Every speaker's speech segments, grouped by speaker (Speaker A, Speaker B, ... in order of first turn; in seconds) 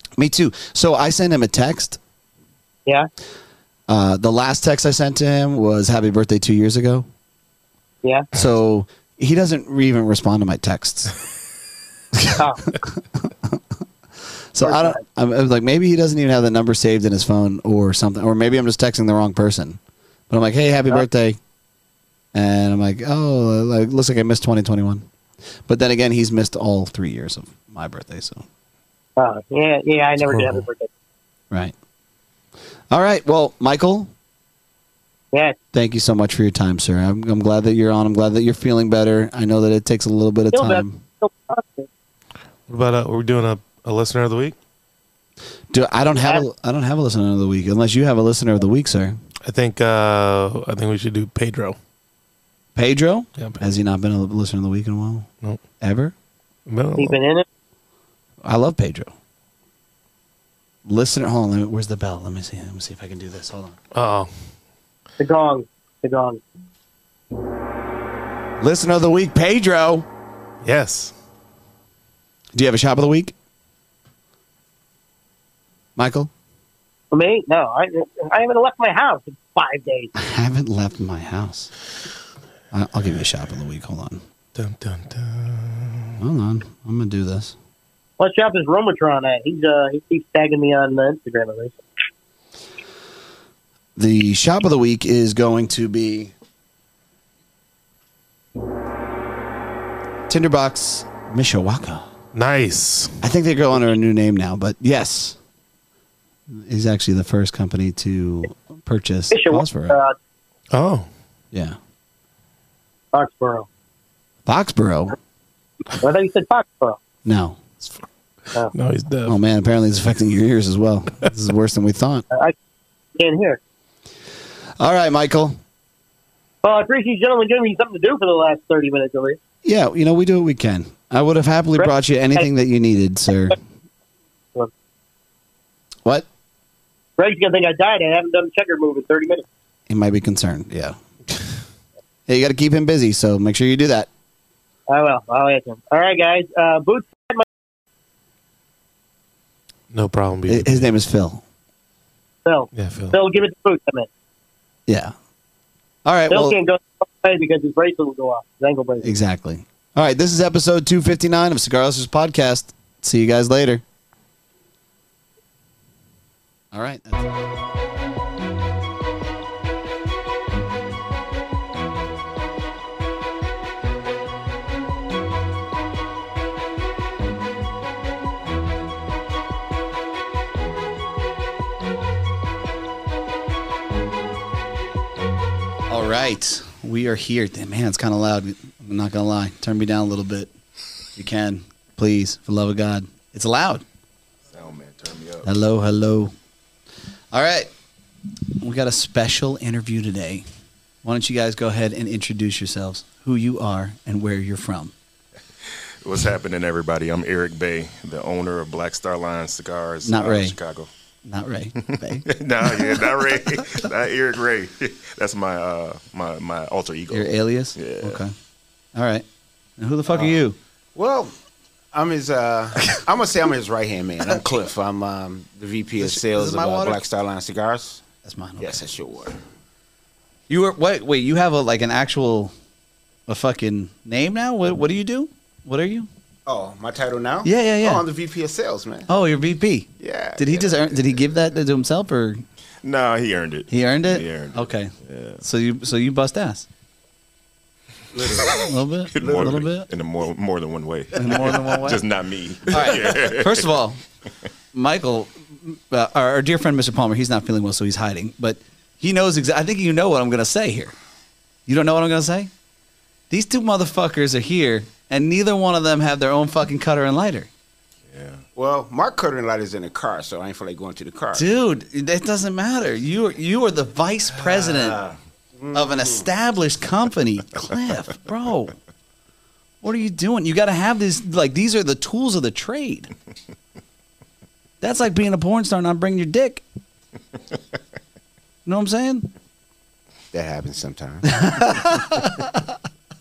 Speaker A: 0.2-2.0, 3.9-7.1, 8.3-11.1, 12.1-13.6, 14.5-21.4, 22.3-25.1, 25.7-28.4, 32.9-34.1, 35.7-41.0, 45.7-49.2, 52.8-55.3, 55.8-56.1, 58.4-59.1, 60.9-63.8, 68.6-70.1, 72.5-73.3, 76.0-76.3, 80.2-81.7, 82.7-84.2, 86.2-87.5, 94.0-96.3, 100.3-102.1, 103.2-105.4, 106.5-110.0, 111.5-111.8, 114.5-115.2, 117.2-117.6, 119.3-122.2, 124.8-125.6, 129.6-133.6, 139.9-141.0, 142.3-144.1, 150.5-151.4, 154.9-155.1, 156.1-156.6, 159.0-163.8, 166.7-167.4, 185.9-190.5, 191.2-193.8, 195.4-196.3, 197.3-197.7, 198.6-200.5, 201.0-204.9, 210.1-210.6, 211.2-213.7, 217.1-218.3, 218.9-219.3, 219.8-220.6, 226.0-227.0, 228.2-228.8, 230.5-232.5, 233.3-236.1, 237.4-238.1, 239.1-242.4, 243.7-246.7, 248.4-249.9, 251.2-252.0, 252.7-254.0, 254.7-260.9, 261.7-262.5, 263.3-267.5, 271.3-275.0, 275.7-278.8, 279.8-283.1, 284.8-286.6, 288.7-289.3, 291.3-292.7
Speaker B: 8.0-8.3, 14.6-15.0, 29.2-30.9, 40.5-41.9, 57.0-57.5, 65.2-66.4, 77.1-80.1, 88.2-91.8, 109.3-110.2, 113.1-113.7, 115.9-117.0, 123.2-123.6, 126.6-129.4, 131.8-132.5, 137.2-139.5, 144.9-147.4, 152.4-154.1, 156.3-159.1
Speaker C: 30.3-30.6, 42.7-44.6, 49.5-51.8, 56.7-57.2, 63.9-64.3, 70.6-71.1, 84.5-86.2, 102.3-103.2, 110.7-111.1, 118.7-119.4, 149.9-150.9, 152.7-153.2
Speaker D: 194.5-195.5, 206.0-210.9, 211.8-218.2, 242.8-245.4, 248.3-248.6, 249.1-253.7, 268.1-268.4
Speaker E: 220.9-221.3, 221.9-228.0, 228.6-229.4, 236.5-239.1, 240.0-241.0, 248.1-248.7, 249.2-249.6, 268.6-271.5, 274.5-276.2, 290.3-291.8